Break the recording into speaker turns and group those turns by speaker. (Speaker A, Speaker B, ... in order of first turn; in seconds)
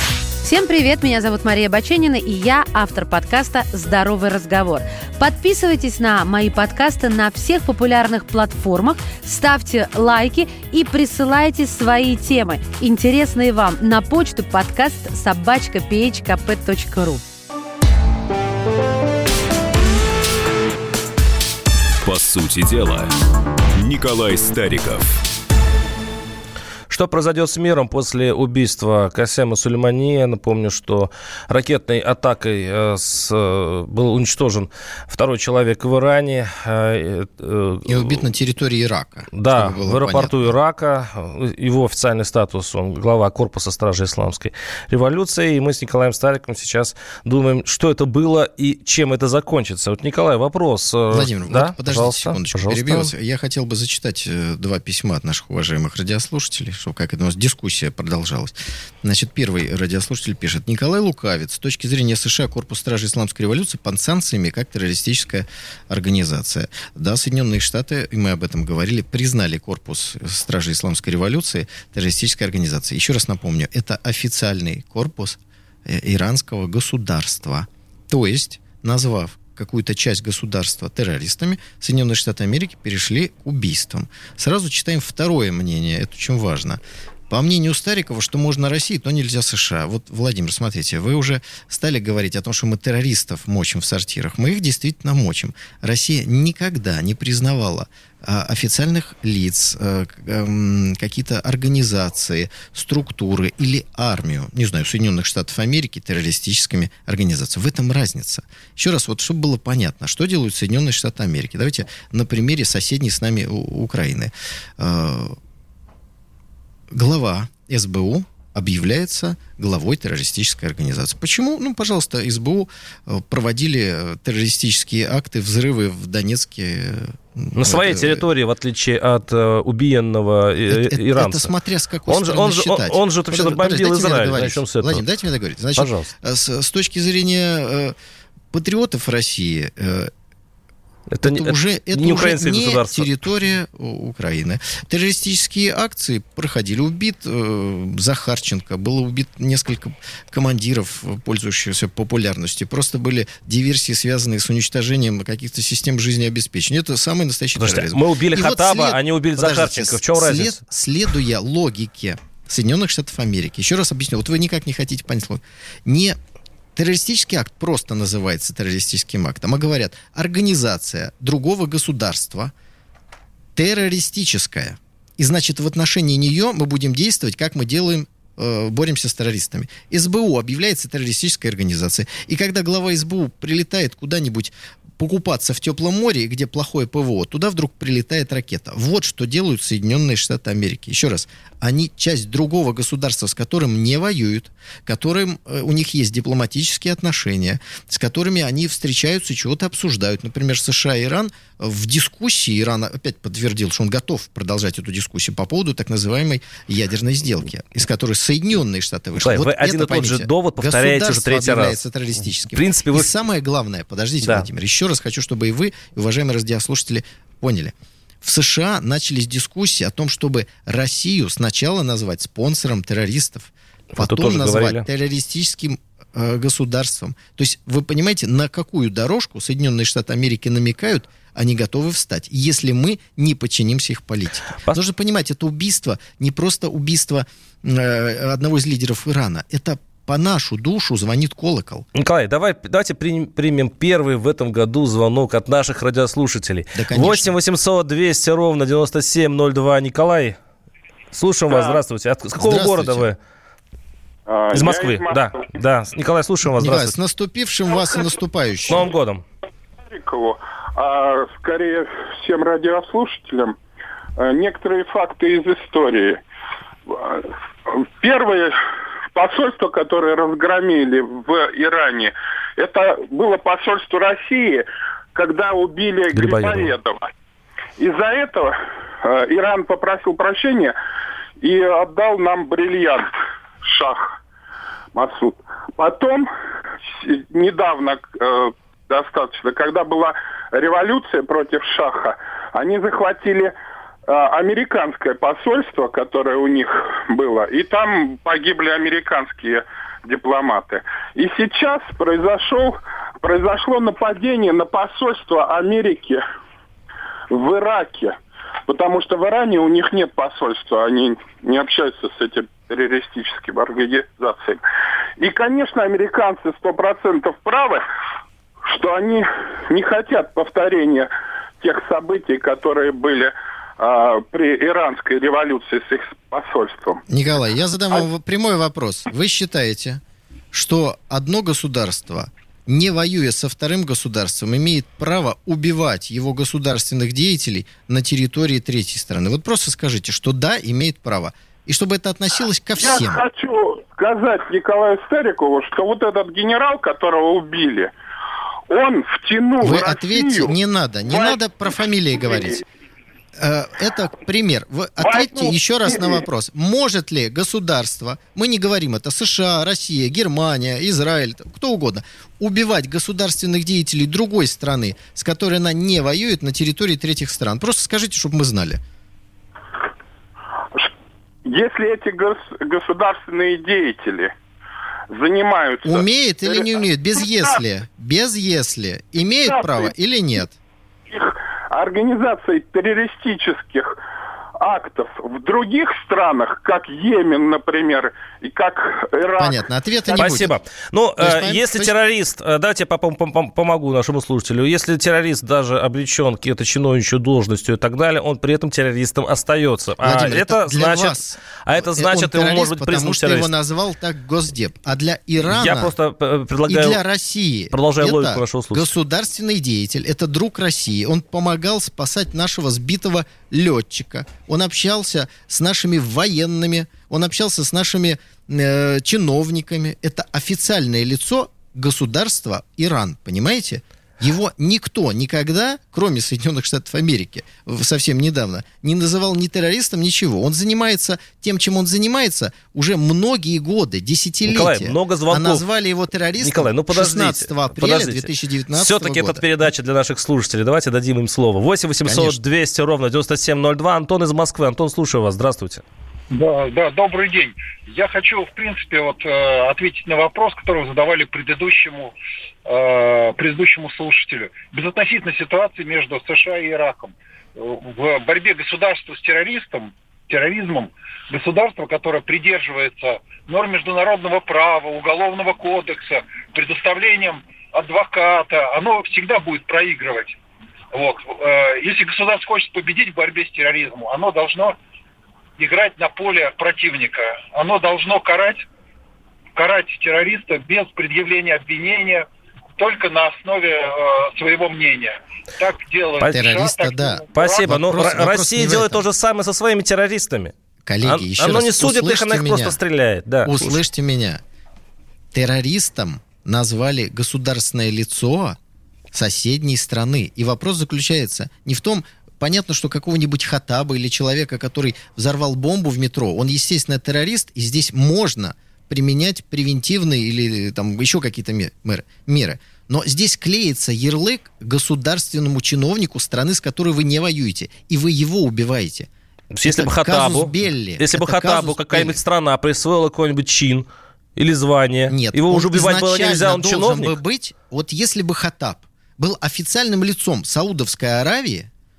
Speaker A: 0.4-17.2
Speaker B: 22.0-23.1, 23.8-25.2
Speaker C: 26.9-38.2, 39.3-53.1, 127.5-131.5, 132.1-135.0, 135.8-136.1, 141.1-143.1, 157.6-160.6, 209.2-211.8, 212.5-213.1, 223.9-224.8, 241.9-250.4, 251.1-253.2, 254.5-256.9, 258.7-259.2, 276.1-276.7, 390.2-403.5, 405.4-407.0, 407.7-408.9, 434.5-435.6, 436.4-445.8, 487.3-493.8, 519.5-527.2
Speaker D: 37.9-40.5, 51.1-115.3, 116.9-128.2, 130.7-137.9, 138.5-140.1, 141.2-166.2, 166.8-172.5, 173.5-241.8, 246.7-247.3, 252.4-253.1, 256.4-258.9, 327.1-330.0, 330.5-343.2, 349.6-352.6, 353.4-368.8, 375.8-380.6, 389.4-390.5, 391.2-391.9, 400.0-405.9, 406.7-439.4, 442.0-442.4, 486.3-489.1, 490.8-492.8, 493.4-494.4, 495.3-498.6, 499.1-519.1, 519.6-522.2, 525.1-531.7
Speaker E: 254.3-255.3, 259.9-263.6, 264.2-266.2, 266.9-268.6, 269.1-277.1, 277.8-280.8, 281.4-283.1, 283.6-284.1, 284.9-286.3, 286.9-293.5, 294.1-306.2, 307.3-308.1, 308.7-314.6, 315.2-317.8, 318.6-321.1, 321.6-327.0, 342.8-347.9, 348.7-350.5, 351.1-351.4, 352.2-352.6, 355.0-356.2, 371.4-374.3, 375.1-376.7, 379.5-379.9, 381.1-384.0, 384.6-390.2
Speaker F: 446.3-452.1, 452.6-470.4, 470.9-474.8, 475.6-478.7, 479.6-482.2, 482.8-487.7